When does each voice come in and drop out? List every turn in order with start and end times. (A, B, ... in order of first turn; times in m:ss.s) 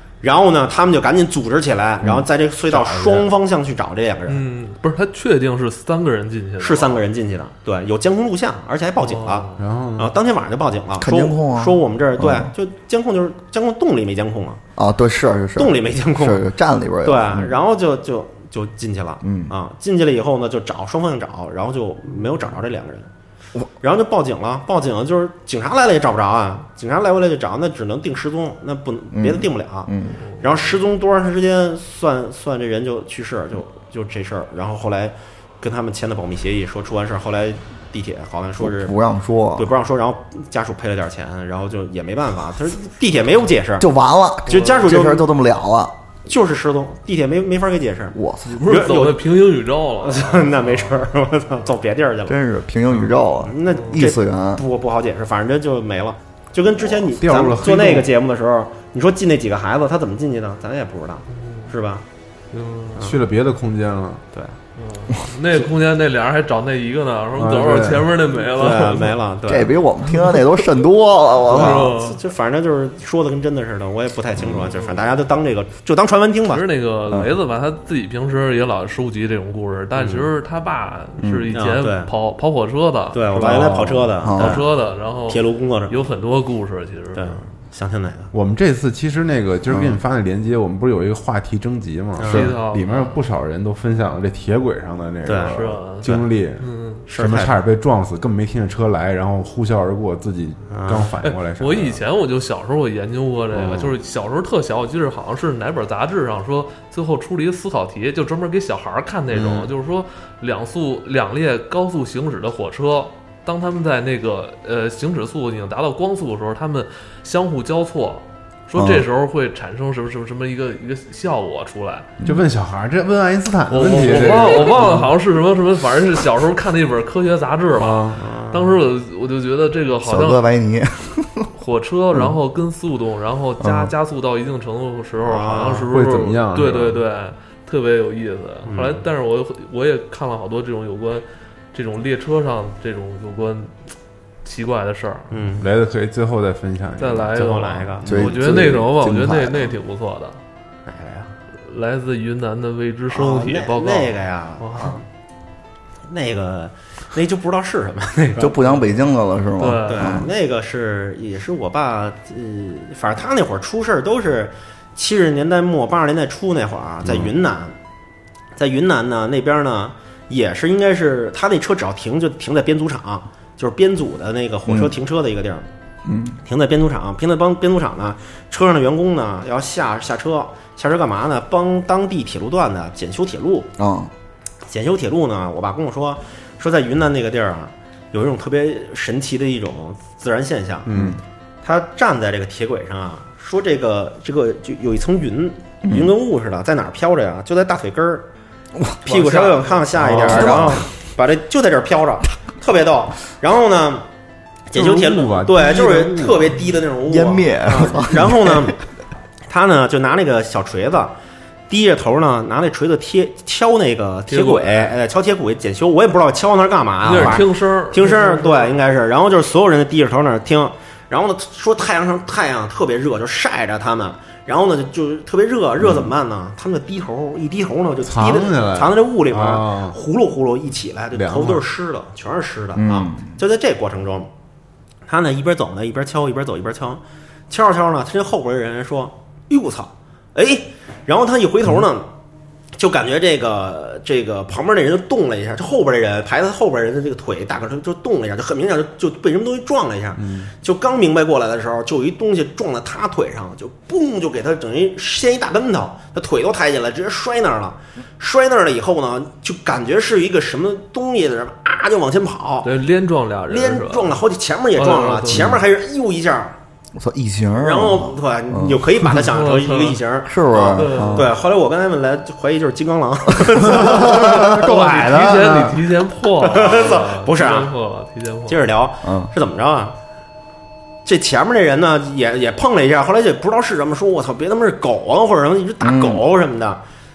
0:00.2-0:04.4 A
0:02.1-0:03.3 B
0:04.3-0:07.0 C
0:06.6-0:14.6 A
0:09.0-0:09.6 C
0:09.6-0:10.1 B
0:11.0-0:12.5 D
0:14.8-0:17.5 D
0:15.6-0:16.5 A
0:17.0-0:23.1 A
0:19.2-0:19.5 D
0:23.8-0:38.9 A
0:29.2-0:30.2 D
0:38.6-0:39.7 D
0:39.6-0:43.9 A
0:43.8-0:45.9 D
0:44.5-0:45.3 A
0:46.3-0:49.2 A
0:48.1-0:48.6 D
0:48.5-0:51.0 C
0:50.0-0:52.4 A
0:52.3-0:54.6 D
0:52.9-1:02.0 A
0:57.1-0:58.1 B
1:01.4-1:01.7 C
1:02.5-1:03.1 C
1:03.0-1:04.2 B
1:04.8-1:09.2 C
1:07.4-1:08.1 B
1:08.5-1:09.7 A
1:09.5-1:12.0 D
1:11.4-1:16.6 A
1:11.5-1:12.2 C
1:14.7-1:15.0 C
1:16.5-1:23.7 C
1:20.0-1:20.3 A
1:21.2-1:21.5 D
1:21.5-1:22.1 A
1:23.1-1:24.7 A
1:23.3-1:24.1 B
1:24.2-1:24.6 D
1:24.4-1:27.4 C
1:25.3-1:26.1 A
1:27.1-1:28.3 A
1:28.3-1:42.0 B
1:29.7-1:30.0 D
1:32.2-1:32.6 A
1:32.3-1:33.2 C
1:35.3-1:36.2 A
1:35.4-1:37.0 C
1:37.1-1:37.6 A
1:40.7-1:41.1 A
1:41.2-2:02.1 C
1:43.6-1:43.9 B
1:49.3-1:49.7 B
1:58.8-1:59.1 D
2:02.2-2:05.1 B
2:03.7-2:10.4 C
2:07.7-2:08.2 B
2:08.2-2:08.8 A
2:10.0-2:11.5 D
2:11.5-2:23.7 C
2:13.6-2:13.9 D
2:15.2-2:15.9 A
2:15.9-2:17.0 B
2:18.7-2:19.0 A
2:24.4-2:25.3 C
2:25.3-2:25.7 A
2:25.6-2:27.5 B
2:27.0-2:30.4 C
2:27.3-2:28.1 A
2:28.0-2:28.8 B
2:28.1-2:29.8 D
2:30.9-2:31.3 A
2:31.7-2:35.0 C
2:33.1-2:35.0 A
2:36.1-2:38.7 A
2:38.4-2:40.3 D
2:39.6-2:40.2 C
2:39.8-2:47.8 A
2:47.0-2:47.3 B
2:48.6-2:55.7 A
2:54.7-2:54.9 D
2:56.1-2:56.4 D
2:56.4-3:03.7 A
3:03.8-3:04.1 D
3:04.7-3:10.9 A
3:10.9-3:11.2 B
3:10.9-3:11.2 D
3:11.6-3:18.3 A
3:15.8-3:16.1 D
3:19.0-3:24.1 A
3:19.1-3:19.9 C
3:20.0-3:20.8 B
3:20.3-3:20.8 D
3:24.7-3:28.8 A
3:24.7-3:26.7 B
3:27.1-3:28.7 D
3:29.5-3:31.2 A
3:31.7-3:54.3 A
3:34.3-3:35.0 C
3:37.0-3:38.8 C
3:37.1-3:37.4 B
3:48.0-3:50.0 B
3:51.1-3:51.6 B
3:52.8-3:53.3 D
3:55.1-4:02.1 A
4:02.8-4:22.7 A
4:10.2-4:10.5 B
4:22.6-4:24.2 C
4:23.5-4:26.6 A
4:24.8-4:25.6 C
4:27.0-4:29.1 D
4:27.6-4:34.6 A
4:29.3-4:30.0 C
4:30.3-4:31.3 D
4:30.8-4:31.3 C
4:31.0-4:31.3 B
4:33.5-4:34.1 D
4:33.7-4:35.8 B
4:34.1-4:38.7 C
4:36.4-4:37.7 A
4:38.5-4:40.0 A
4:39.0-4:39.3 D
4:41.0-4:46.8 A
4:45.8-4:46.2 D